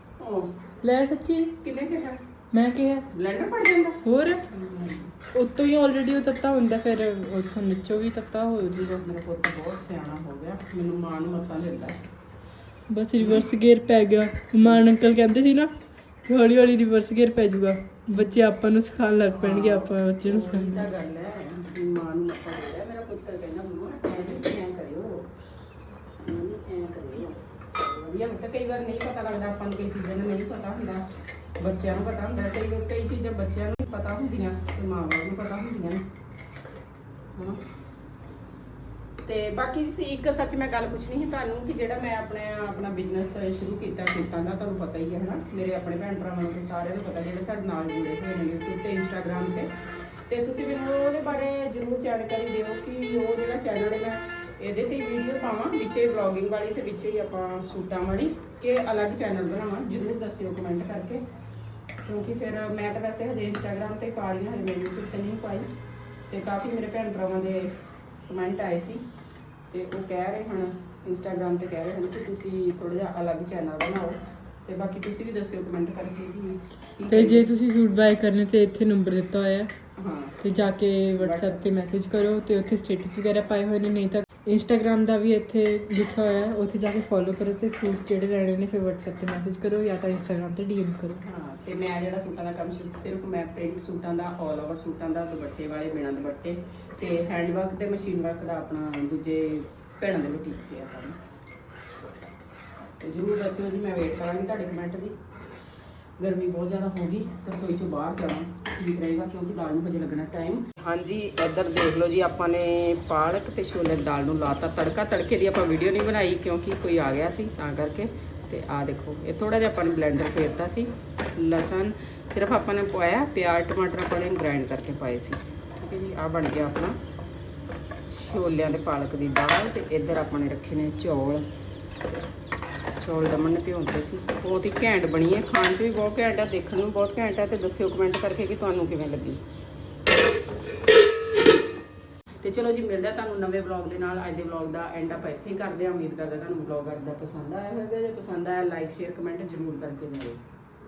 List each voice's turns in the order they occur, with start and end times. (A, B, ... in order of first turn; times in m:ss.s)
0:00.2-0:00.6 A
0:00.8-0:01.6 B
0:01.6-0:02.2 A
0:02.5-0:03.1 B
0:03.1-0:05.1 A
0:04.0-0:04.4 B
0:05.3-0:09.0 B
0:08.9-0:12.0 A
0:12.9-0:15.7 B
0:13.2-0:13.5 A
0:14.6-0:14.9 A
0:16.3-0:20.9 B
0:18.1-0:18.4 A
0:19.3-0:25.3 A
0:26.2-0:31.0 A
0:31.6-0:36.0 A
0:37.4-0:37.6 A
0:39.2-0:49.7 A
0:50.3-1:01.2 A
1:02.0-1:05.7 A
1:06.3-1:09.0 A
1:09.7-1:17.5 A
1:17.1-1:19.7 B
1:20.0-1:20.4 A
1:20.4-1:31.2 B
1:21.2-1:21.6 A
1:31.2-1:41.2 A
1:43.0-1:45.2 A
1:46.2-2:07.0 A
2:08.1-2:11.4 A
2:13.0-2:19.4 A
2:22.4-2:30.4 A